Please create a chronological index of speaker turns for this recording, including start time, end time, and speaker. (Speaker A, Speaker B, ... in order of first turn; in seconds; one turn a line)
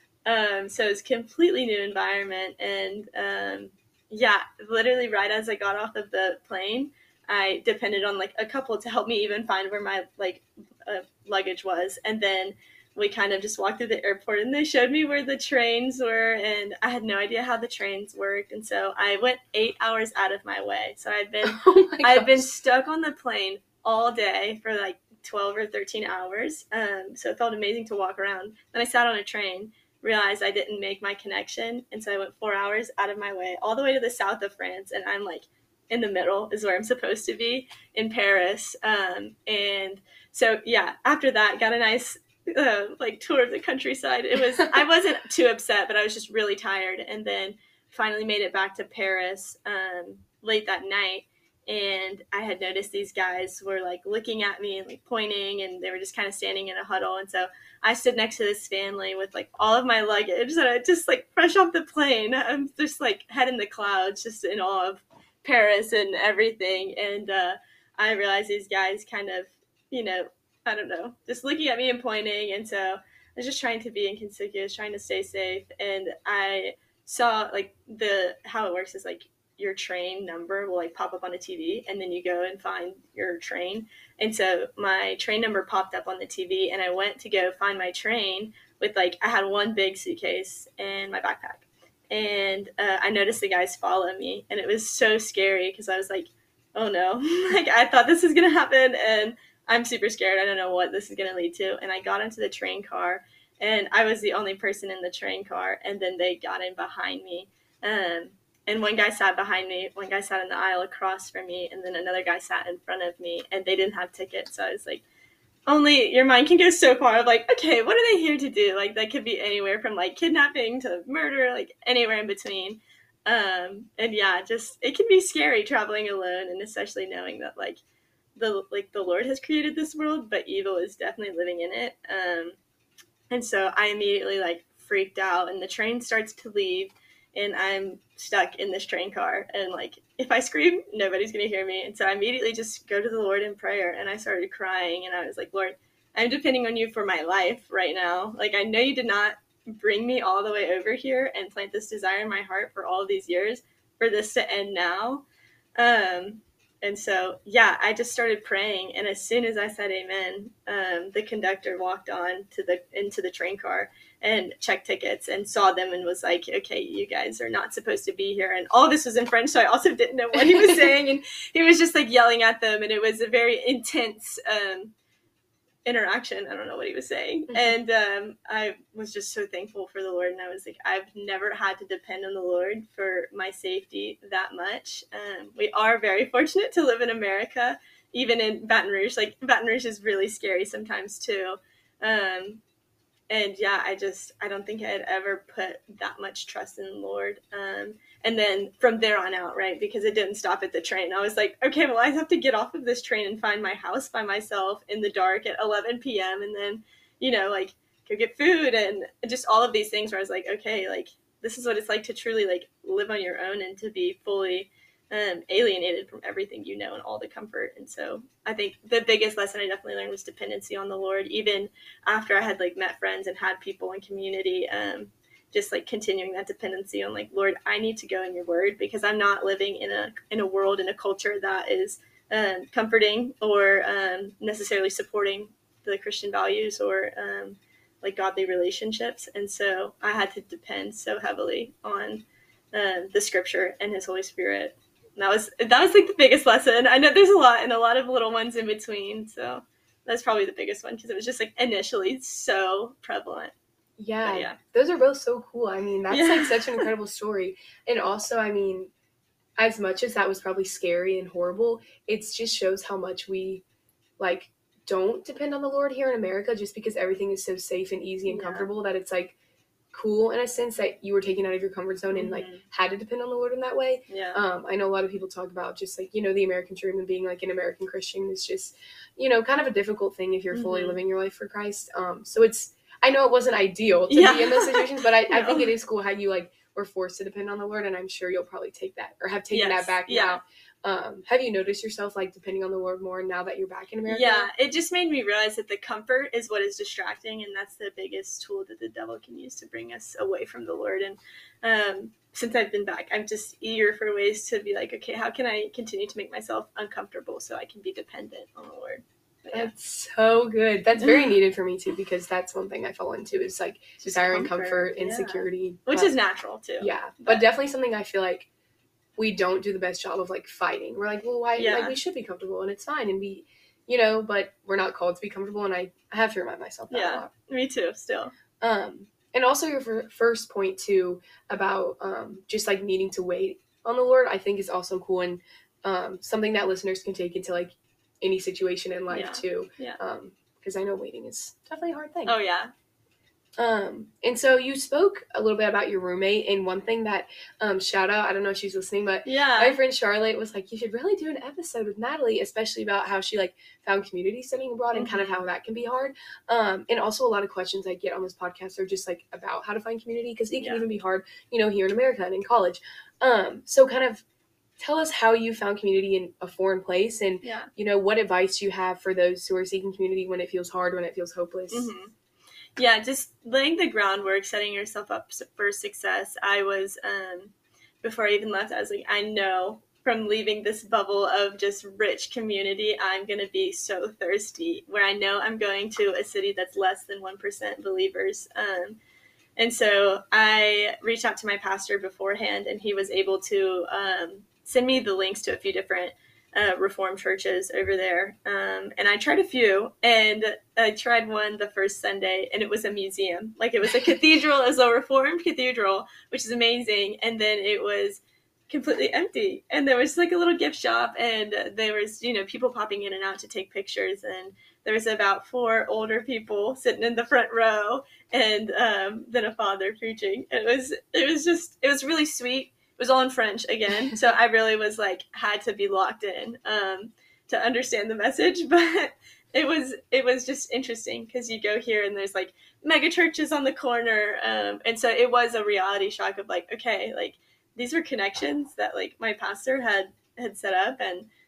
Speaker A: 0.2-115.0
Speaker B: 21.4-22.5
Speaker A: 115.7-127.8
Speaker A: 128.3-132.6
Speaker A: 133.3-155.2
Speaker A: 155.8-174.9
Speaker B: 170.5-170.9
Speaker A: 175.8-192.6
Speaker A: 193.3-253.5
Speaker B: 254.0-258.9
Speaker A: 254.2-254.6
Speaker A: 256.1-256.9
Speaker B: 259.6-263.6
Speaker B: 264.2-269.3
Speaker A: 268.3-268.7
Speaker B: 269.9-294.5
Speaker A: 272.1-272.6
Speaker A: 274.1-274.4
Speaker A: 280.5-281.0
Speaker A: 284.1-285.7
Speaker A: 289.5-290.4
Speaker A: 294.1-309.7
Speaker B: 309.5-316.1
Speaker A: 314.0-317.4
Speaker B: 316.8-318.5
Speaker B: 319.2-327.3
Speaker A: 321.6-321.9
Speaker A: 326.9-328.3
Speaker B: 328.6-342.3
Speaker A: 339.1-340.0
Speaker A: 342.2-342.7
Speaker B: 343.6-364.2
Speaker A: 349.2-349.8
Speaker A: 354.9-355.4
Speaker A: 360.6-360.8
Speaker B: 364.8-371.9
Speaker A: 367.4-367.7
Speaker A: 371.7-372.1
Speaker A: 372.8-389.0
Speaker A: 389.6-441.3